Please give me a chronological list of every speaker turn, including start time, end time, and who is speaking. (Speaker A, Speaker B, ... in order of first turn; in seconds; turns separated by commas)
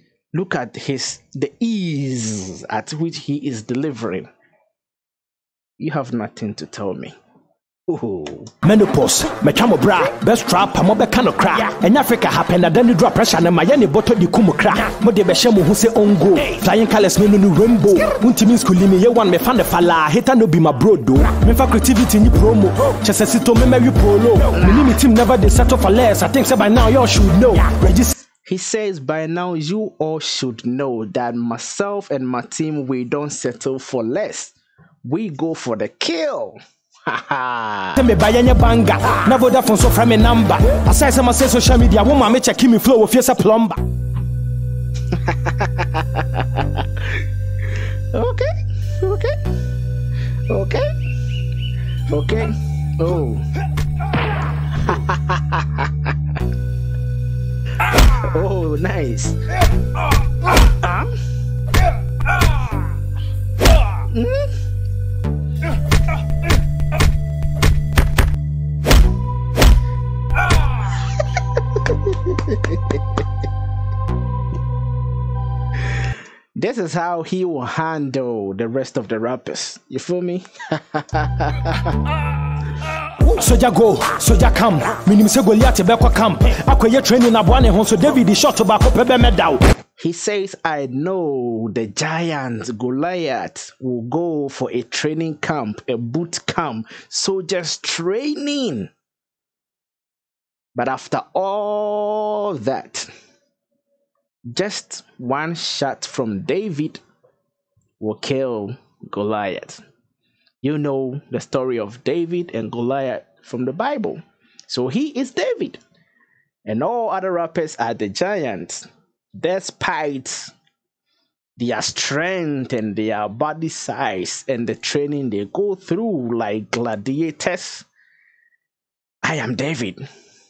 Speaker A: 0.3-4.3, Speaker A: 5.8-7.2, Speaker A: 7.9-8.5, Speaker B: 8.6-28.1, Speaker A: 24.6-25.0, Speaker A: 28.4-38.0, Speaker B: 38.0-43.8, Speaker A: 45.1-47.1, Speaker A: 48.1-49.4, Speaker A: 50.5-51.0, Speaker A: 52.1-53.5, Speaker A: 54.7-56.1, Speaker A: 57.8-59.4, Speaker A: 60.4-61.2, Speaker A: 64.0-64.5, Speaker A: 71.8-72.9, Speaker A: 76.5-82.0, Speaker B: 83.2-89.6, Speaker A: 90.0-98.9, Speaker A: 100.8-103.1, Speaker A: 104.5-107.0, Speaker A: 108.0-109.8, Speaker A: 110.6-115.8, Speaker A: 116.7-118.9, Speaker A: 119.4-120.5, Speaker A: 121.6-127.9, Speaker A: 129.2-130.1